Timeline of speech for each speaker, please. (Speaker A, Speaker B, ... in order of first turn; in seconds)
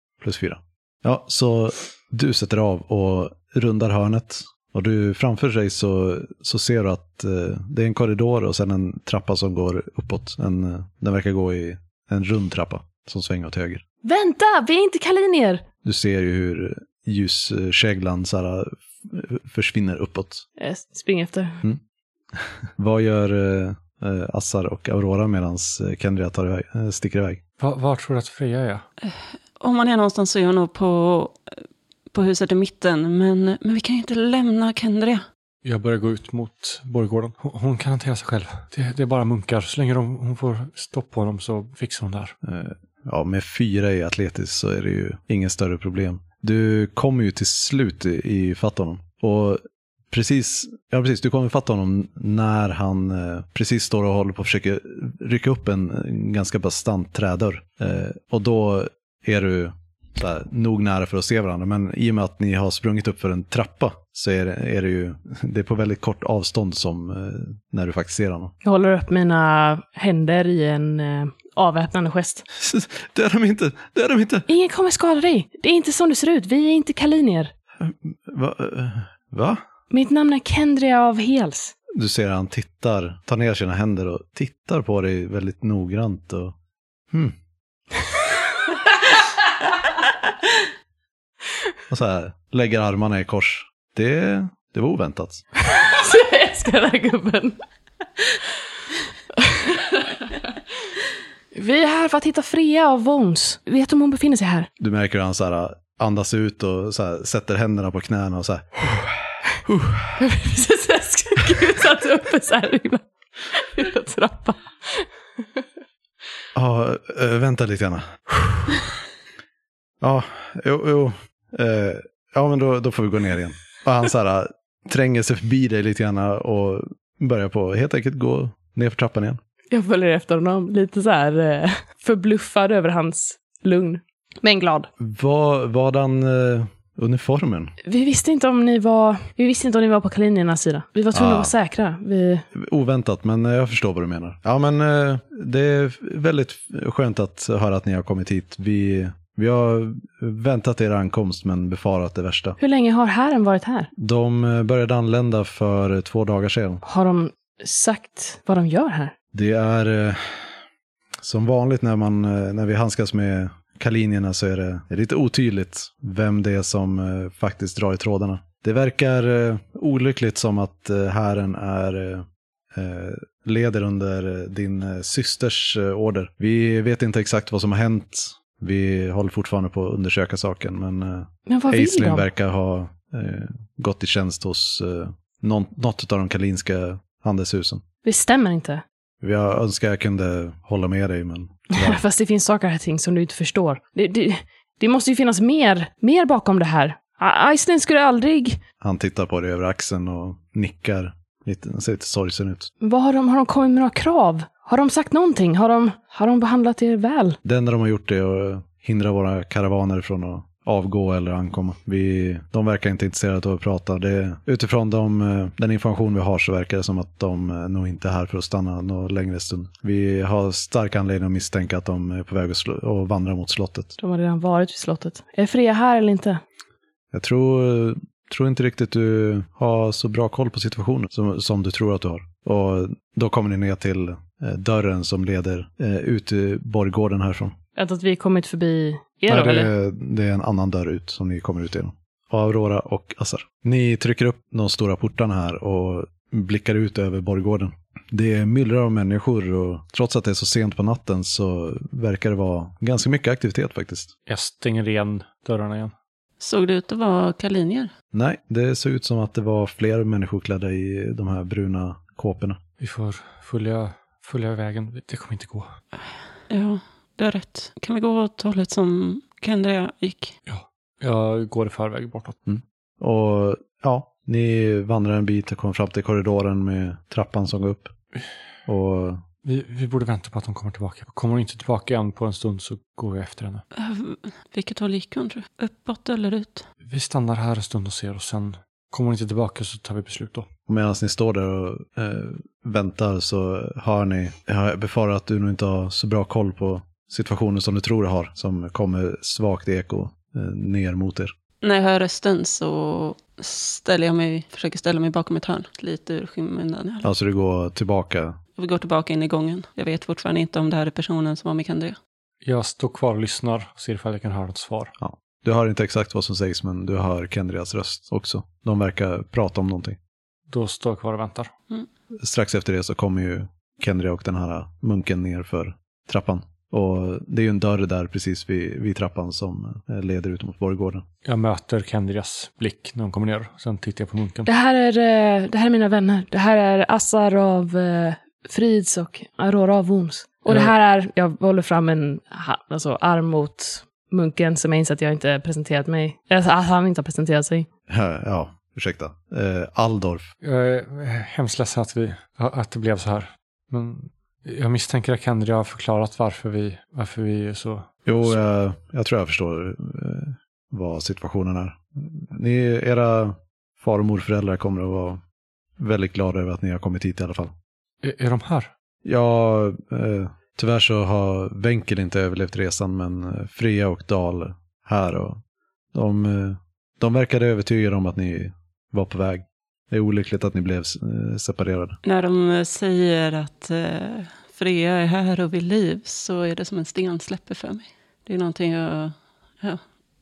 Speaker A: 0.2-13.8, 15.8-20.4, 22.4-27.4, 42.4-68.5, 72.5-74.5, 77.8-79.6, 81.9-86.5, 87.1-87.4, 91.9-95.4, 104.8-110.2, 116.5-118.8, 120.0-129.4, 135.0-137.8, 141.1-141.5, 142.5-152.6, 154.0-156.8, 159.3-160.6, 161.2-187.8, 189.2-192.0, 198.8-202.7, 207.4-223.9, 227.1-237.6, 239.3-254.1, 258.1-262.6, 272.5-277.9, 278.7-279.2, 290.7-301.3, 307.0-308.4, 315.0-320.0, 322.2-331.1, 347.9-350.3, 358.1-365.2, 365.8-367.5, 369.0-375.4, 375.9-382.0
Speaker B: 14.0-15.6, 20.6-21.6, 68.6-72.5, 74.5-77.5, 79.9-81.7, 95.8-97.6, 99.4-100.1, 101.5-104.7, 110.2-115.1, 129.7-134.9, 137.8-142.4, 152.6-153.9, 156.8-159.1, 181.5-182.3, 188.0-188.8, 191.7-198.6, 202.8-207.4, 224.0-226.4, 237.8-239.7, 334.4-347.7
Speaker C: 27.6-28.9, 35.6-42.3, 254.3-255.9, 262.8-265.7, 270.5-272.4, 279.4-283.6, 286.9-290.5, 312.4-314.9, 320.5-321.5, 331.2-334.5, 350.4-358.3, 368.0-368.7
Speaker D: 29.0-35.2, 256.4-257.9, 266.5-270.4, 283.7-286.7, 301.6-307.1, 308.6-312.0, 382.0-389.8